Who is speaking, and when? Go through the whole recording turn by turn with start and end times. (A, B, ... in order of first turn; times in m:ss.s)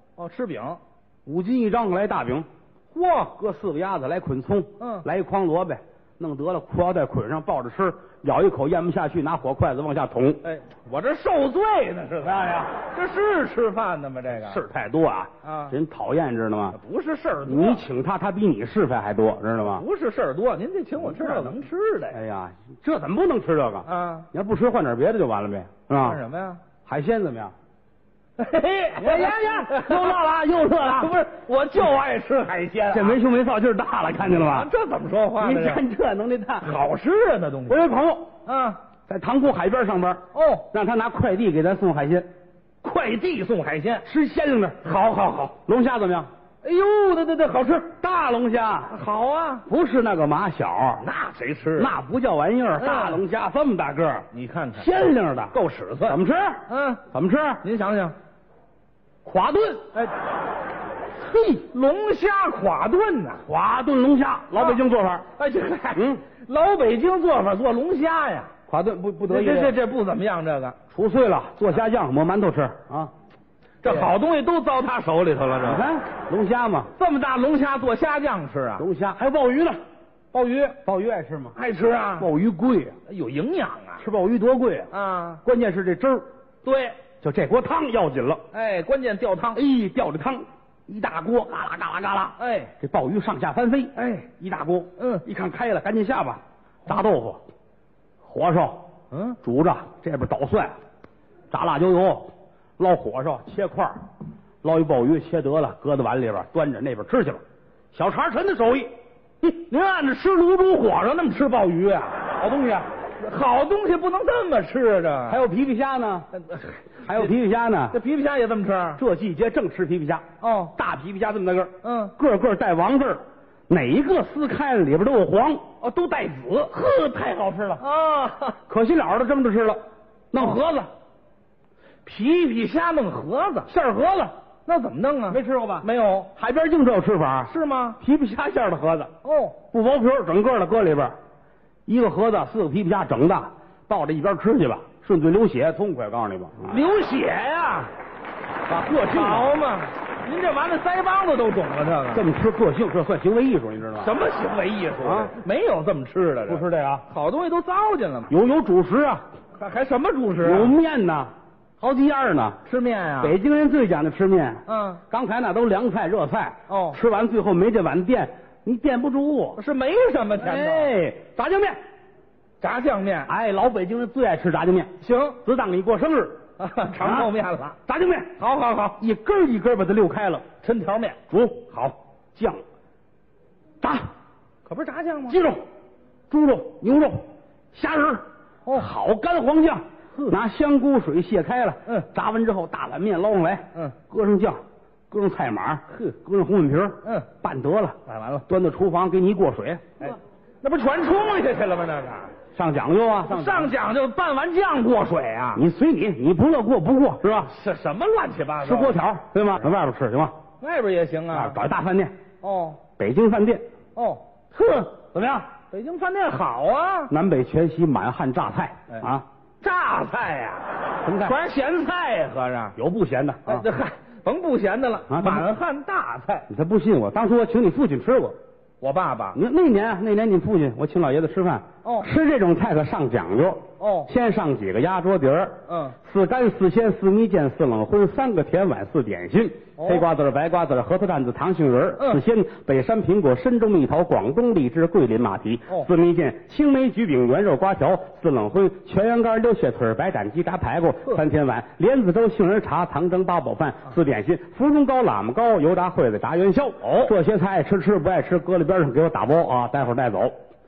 0:00.2-0:00.8 A
0:01.2-0:02.5 B
0:03.0-0:10.4 B
0:04.8-0:05.0 A
0:10.4-0:14.6 A
0:14.3-0:16.8 B
0:15.4-0:15.8 A
0:16.7-0:17.8 A
0:17.4-0:19.8 B
0:19.6-0:22.2 A
0:21.0-0:21.6 B
0:22.1-0:26.2 B
0:23.8-0:24.3 A
0:26.0-0:26.6 A
0:26.8-0:27.5 B
0:28.4-0:33.2 A
0:29.0-0:31.2 B
0:32.9-0:34.7 B
0:34.2-0:35.8 A
0:35.4-0:36.8 B
0:36.6-0:37.8 A
0:37.7-0:38.3 B
0:38.4-0:38.8 A
0:39.0-0:42.3 B
0:40.3-0:40.7 A
0:42.8-0:44.0 A
0:44.0-0:44.8 B
0:44.8-0:45.6 A
0:45.6-0:46.3 B
0:46.6-0:47.9 A
0:47.9-0:48.9 B
0:48.9-0:49.6 A
0:49.6-0:51.0 B
0:51.0-0:51.9 A
0:51.8-0:55.5 B
0:52.8-0:53.2 A
0:54.3-0:54.9 A
0:55.5-0:57.0 A
0:56.0-0:57.6 B
0:57.6-0:58.2 A
0:59.2-0:59.9 B
1:01.1-1:03.4 A
1:03.4-1:05.3 B
1:04.5-1:04.8 A
1:05.4-1:08.5 A
1:05.9-1:06.2 B
1:08.7-1:09.8 B
1:09.3-1:10.8 A
1:10.9-1:13.1 B
1:13.8-1:15.9 A
1:13.8-1:14.1 B
1:15.6-1:16.9 B
1:17.0-1:18.8 A
1:18.8-1:19.8 B
1:20.3-1:20.8 A
1:20.8-1:21.6 B
1:21.5-1:22.3 A
1:22.2-1:23.0 B
1:23.0-1:24.0 A
1:24.0-1:24.9 B
1:24.9-1:25.4 A
1:25.4-1:26.2 B
1:26.6-1:27.0 A
1:27.2-1:28.4 B
1:28.5-1:29.6 A
1:29.5-1:37.4 B
1:32.4-1:32.7 A
1:34.0-1:34.3 A
1:35.0-1:35.2 A
1:38.2-1:38.9 B
1:39.1-1:39.4 A
1:39.4-1:40.8 B
1:41.5-1:44.0 B
1:44.6-1:47.4 B
1:47.9-1:48.9 B
1:49.4-1:52.4 A
1:52.4-1:52.9 B
1:53.2-1:55.4 A
1:55.3-1:56.3 B
1:56.3-1:57.3 A
1:57.0-1:58.0 B
1:57.9-1:59.0 A
1:59.0-2:00.2 B
2:00.4-2:00.7 A
2:00.7-2:05.6 B
2:01.8-2:02.1 A
2:05.8-2:06.9 A
2:06.8-2:07.8 B
2:07.8-2:08.6 A
2:08.7-2:09.8 B
2:10.3-2:10.9 B
2:10.4-2:10.6 A
2:12.0-2:16.3 A
2:15.3-2:19.1 B
2:17.5-2:18.0 A
2:19.2-2:19.6 A
2:19.7-2:21.1 B
2:21.9-2:26.8 B
2:26.6-2:27.9 A
2:28.7-2:29.6 B
2:28.9-2:32.2 A
2:32.1-2:34.1 B
2:34.0-2:38.3 A
2:35.0-2:35.3 B
2:36.5-2:37.0 B
2:38.3-2:39.2 B
2:39.5-2:40.8 A
2:40.4-2:42.6 B
2:42.6-2:43.4 A
2:43.2-2:49.6 B
2:44.7-2:45.0 A
2:46.7-2:47.0 A
2:49.6-2:51.0 A
2:50.4-2:51.8 B
2:52.6-2:53.3 A
2:53.3-2:57.3 B
2:55.0-2:55.4 A
2:56.6-2:57.8 A
2:57.9-2:58.3 B
2:58.4-2:59.0 A
2:59.0-3:00.4 B
3:00.6-3:01.2 A
3:01.3-3:02.6 B
3:03.8-3:04.1 B
3:04.6-3:05.4 A
3:05.3-3:05.6 B
3:06.3-3:20.2 B
3:17.0-3:17.3 A
3:18.0-3:18.5 A
3:20.0-3:22.4 A
3:22.5-3:23.7 B
3:23.2-3:25.6 A
3:25.5-3:27.5 B
3:27.4-3:29.0 A
3:28.6-3:30.4 B
3:30.6-3:31.6 A
3:31.3-3:32.1 B
3:32.4-3:32.8 A
3:33.0-3:33.6 B
3:33.9-3:34.3 A
3:34.5-3:35.5 B
3:35.7-3:37.1 A
3:37.1-3:39.2 B
3:39.6-3:42.7 A
3:41.0-3:41.4 B
3:42.8-3:43.7 B
3:43.4-3:46.5 A
3:45.1-3:45.5 B
3:46.5-3:48.4 B
3:48.8-3:49.4 A
3:49.3-4:20.3 B
3:51.8-3:52.1 A
3:53.8-3:54.1 A
3:55.7-3:56.0 A
3:59.8-4:00.0 A
4:16.8-4:17.1 A